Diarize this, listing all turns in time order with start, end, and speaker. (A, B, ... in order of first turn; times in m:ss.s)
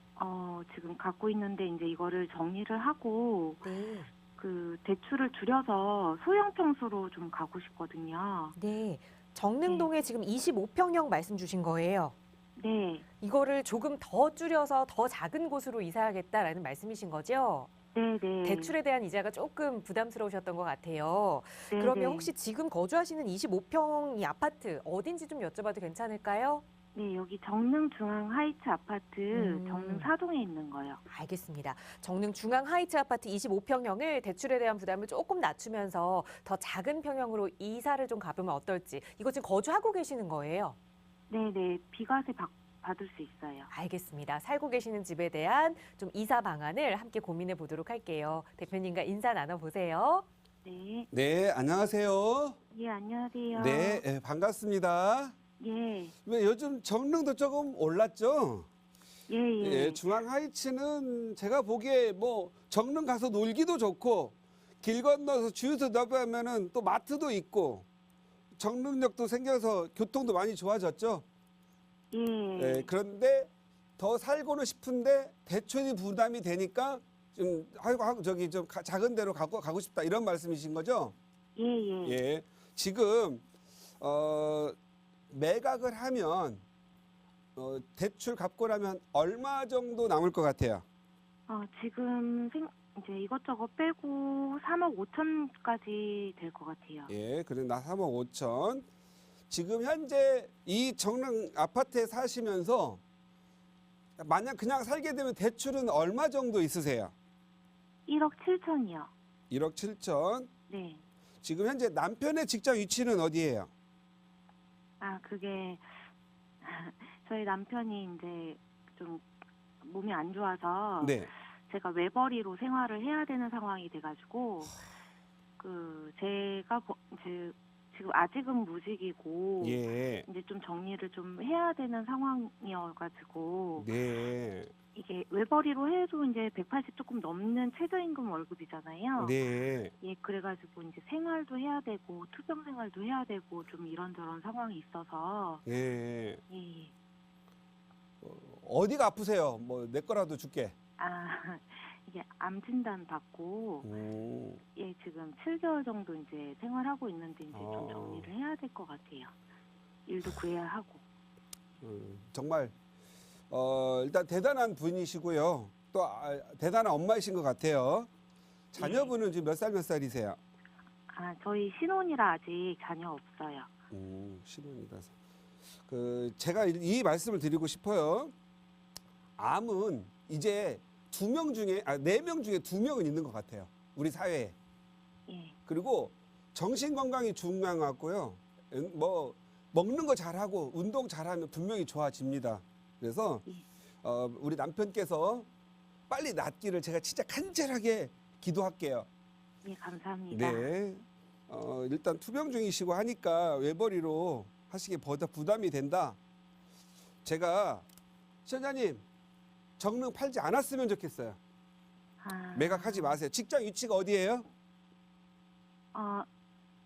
0:00.2-0:03.7 A
0:03.6-0:04.1 B
0:04.4-0:08.5 A
0:08.5-0:12.1 B
0:09.6-0:09.9 A
0:12.6-0:13.0 A
0:13.2-0:17.7 B
0:17.9-0:18.7 A
0:18.4-0:26.6 B
0:21.7-0:22.3 A
0:26.9-0:31.0 A
0:29.3-0:30.1 B
0:31.1-0:40.8 B
0:41.3-0:43.7 A
0:43.7-0:50.2 B
0:50.6-0:51.1 A
0:51.1-0:52.6 C
0:52.7-0:54.0 A
0:53.5-0:55.3 C
0:55.6-0:56.1 A
0:56.2-0:58.7 C
0:59.3-1:00.2 A
0:59.6-1:07.8 C
1:08.6-1:11.2 C
1:12.1-1:12.9 A
1:12.6-1:21.1 C
1:21.5-1:22.2 A
1:22.0-1:23.4 C
1:24.0-1:24.8 C
1:25.3-1:26.6 C
1:27.6-1:30.8 C
1:31.5-1:37.1 A
1:37.1-1:38.8 C
1:39.5-1:43.0 C
1:44.2-1:47.1 C
1:48.1-1:49.1 A
1:49.5-1:50.5 C
1:50.7-1:51.0 A
1:51.4-1:53.7 C
1:55.0-1:55.9 A
1:56.6-1:59.2 A
1:59.8-2:04.8 A
2:01.0-2:01.3 C
2:05.6-2:13.9 A
2:09.6-2:10.2 C
2:13.8-2:14.7 C
2:14.9-2:19.4 A
2:19.2-2:19.9 C
2:20.0-2:25.6 A
2:25.6-2:26.4 C
2:26.5-2:26.9 A
2:28.2-2:30.7 C
2:31.0-2:33.9 A
2:33.8-2:34.6 C
2:34.7-2:39.3 A
2:37.5-2:38.3 C
2:40.0-2:41.0 A
2:41.8-2:42.7 C
2:43.5-2:48.1 C
2:48.7-2:50.4 C
2:48.8-2:49.1 A
2:51.1-2:53.7 A
2:53.9-2:55.1 C
2:55.9-2:58.3 C
2:59.4-3:04.5 C
3:05.3-3:05.6 A
3:05.7-3:13.4 C
3:14.0-3:15.5 C
3:16.1-3:19.1 C
3:19.6-3:20.7 A
3:20.3-3:26.2 C
3:27.2-3:27.8 C
3:28.4-3:29.0 C
3:29.8-3:31.4 C
3:32.2-3:33.2 A
3:32.5-3:34.4 C
3:35.9-3:36.3 A